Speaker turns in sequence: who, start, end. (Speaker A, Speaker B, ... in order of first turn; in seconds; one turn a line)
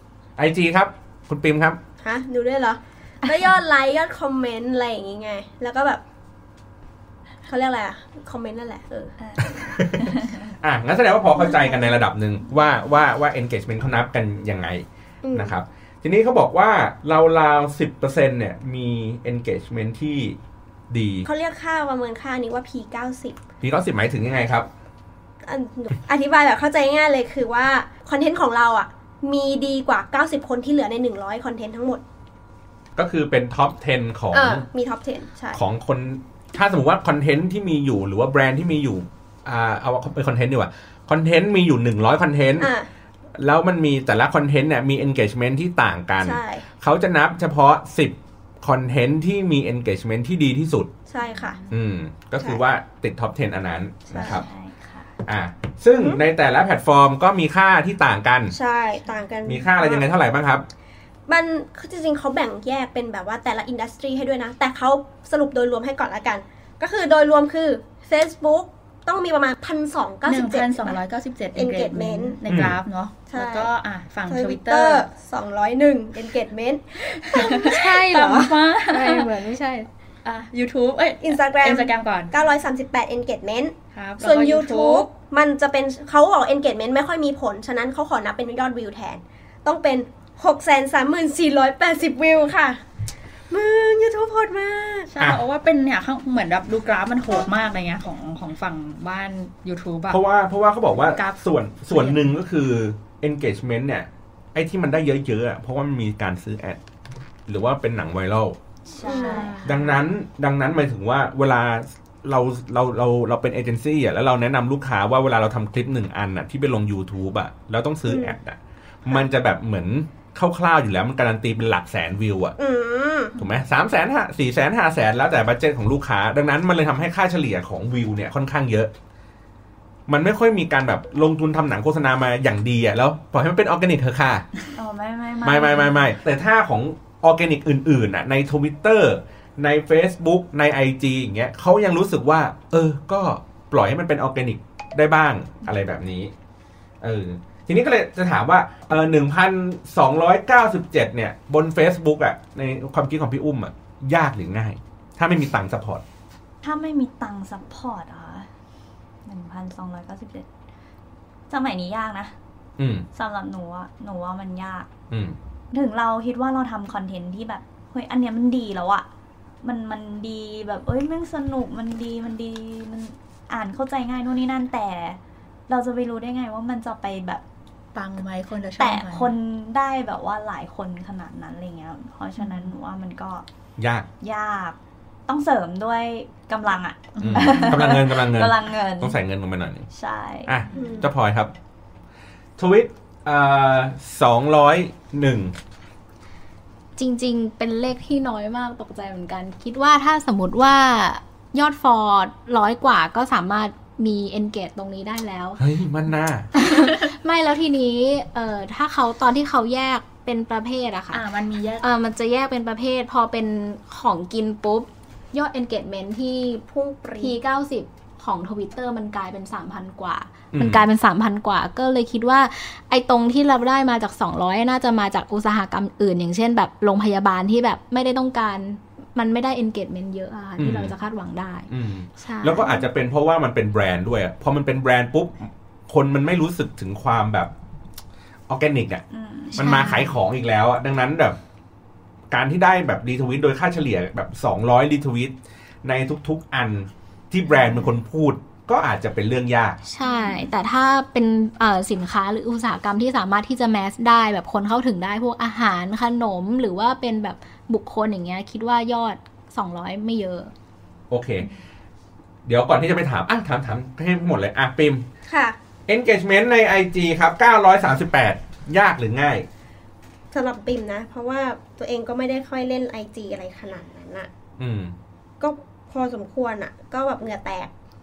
Speaker A: 0.4-1.8
Speaker B: 2.0-6.0
Speaker B: 7.5-9.2
Speaker C: 9.2-10.4
Speaker A: 9.6-20.4
Speaker B: 15.2-15.5
Speaker A: 20.9-21.3
Speaker B: 21.2-23.4
Speaker A: 23.6-24.7
Speaker B: 25.4-32.0
Speaker A: 33.0-34.7
Speaker B: 34.3-35.6
Speaker A: 35.5-42.7
Speaker B: 42.6-42.9
Speaker A: 43.4-50.9
Speaker B: 46.2-46.6
Speaker B: 51.1-51.6
Speaker A: 51.7-54.5
Speaker B: 54.1-54.4
Speaker C: 54.1-55.1
Speaker A: 55.2-58.5
Speaker B: 58.5-60.1
Speaker A: 59.5-60.7
Speaker B: 61.3-71.0
Speaker D: 70.3-75.1
Speaker B: 71.5-72.4
Speaker A: 72.5-72.8
Speaker B: 73.3-73.7
Speaker B: 74.3-77.7
Speaker D: 77.0-79.3
Speaker E: 77.5-79.9
Speaker D: 80.2-82.3
Speaker B: 81.2-92.8
Speaker D: 83.9-85.1
Speaker B: 93.5-95.1
Speaker D: 95.1-100.2
Speaker A: 100.1-106.8
Speaker D: 101.0-102.3
Speaker A: 107.5-108.6
Speaker C: 108.9-109.7
Speaker B: 109.0-109.6
Speaker D: 109.1-109.9
Speaker A: 109.6-122.6
Speaker B: 118.1-118.4
Speaker B: 122.6-123.4
Speaker A: 123.4-128.9
Speaker A: 130.1-134.5
Speaker C: 134.7-136.1
Speaker A: 135.4-146.3
Speaker A: 147.0-156.0
Speaker C: 156.6-158.5
Speaker C: 159.3-160.5
Speaker C: 161.5-162.3
Speaker A: 162.8-163.1
Speaker C: 163.1-164.9
Speaker A: 165.1-165.4
Speaker C: 165.7-169.1
Speaker C: 169.6-177.4
Speaker D: 177.9-179.3
Speaker C: 178.8-183.5
Speaker D: 182.4-182.7
Speaker A: 183.8-184.1
Speaker C: 184.2-189.2
Speaker D: 187.2-187.9
Speaker A: 187.2-189.9
Speaker C: 189.9-190.6
Speaker A: 190.5-191.5
Speaker B: 190.7-191.1
Speaker A: 192.6-195.6
Speaker E: 197.0-205.6
Speaker A: 205.6-206.5
Speaker E: 206.5-211.2
Speaker D: 211.1-211.9
Speaker E: 211.8-216.7
Speaker B: 216.7-217.4
Speaker E: 217.2-232.9
Speaker A: 220.5-220.8
Speaker A: 230.6-230.9
Speaker A: 231.7-237.5
Speaker A: 238.5-239.0
Speaker C: 239.1-239.9
Speaker A: 239.6-241.4
Speaker E: 239.6-240.1
Speaker A: 242.3-249.8
Speaker E: 249.9-260.5
Speaker D: 250.0-250.5
Speaker A: 261.1-261.5
Speaker A: 262.5-265.1
Speaker B: 265.3-265.6
Speaker A: 265.9-269.5
Speaker B: 270.3-274.3
Speaker A: 274.6-274.9
Speaker B: 275.4-277.7